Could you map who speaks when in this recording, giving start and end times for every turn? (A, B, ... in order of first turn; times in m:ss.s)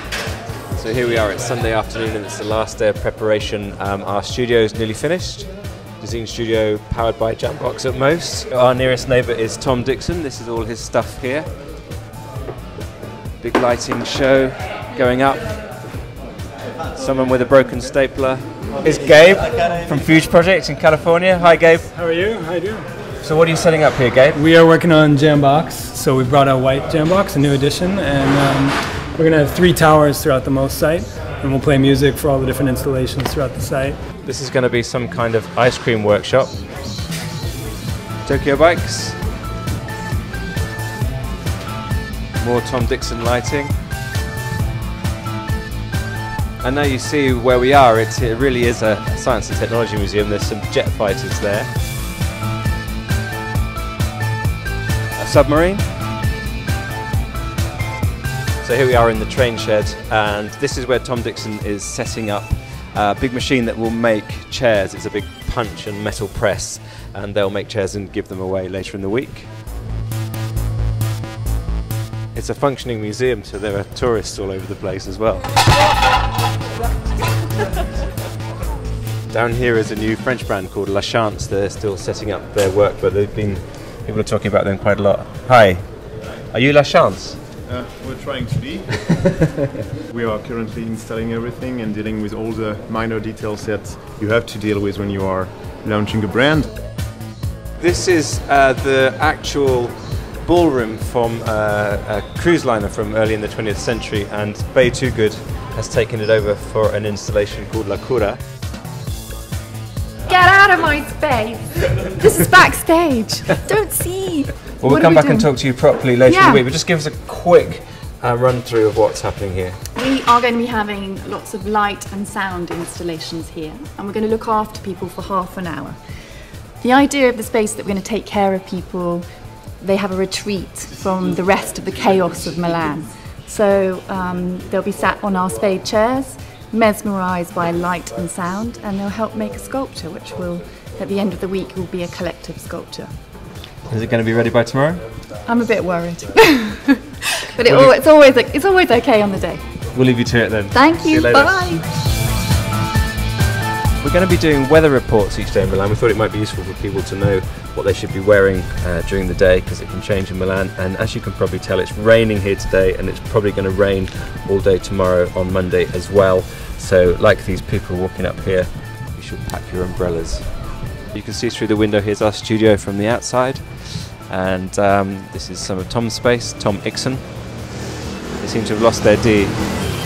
0:00.7-0:11.5 A
0:13.4-0:15.6 A
0:16.9-0:21.9 A
0:21.9-0:22.9 B
0:23.2-0:24.4 A
0:24.3-0:34.0 B
0:34.2-0:36.6 A
0:38.2-0:39.2 A
0:42.4-0:43.7 A
0:46.6-0:51.7 A
0:55.2-0:55.9 A
0:58.6-1:09.5 A
1:12.3-1:15.5 A
1:19.3-1:25.9 A
1:26.5-1:27.4 A
1:27.6-1:29.0 C
1:30.1-1:36.7 C
1:37.8-1:48.4 A
1:50.2-1:55.5 D
1:54.8-1:59.8 A
1:56.2-1:56.6 D
1:59.9-2:06.0 D
2:06.8-2:09.3 D
2:09.8-2:23.1 D
2:23.8-2:25.0 A
2:25.4-2:29.6 D
2:27.6-2:27.9 A
2:29.9-2:31.6 A
2:30.7-2:31.8 D
2:34.0-2:57.6 A
2:58.4-2:59.6 A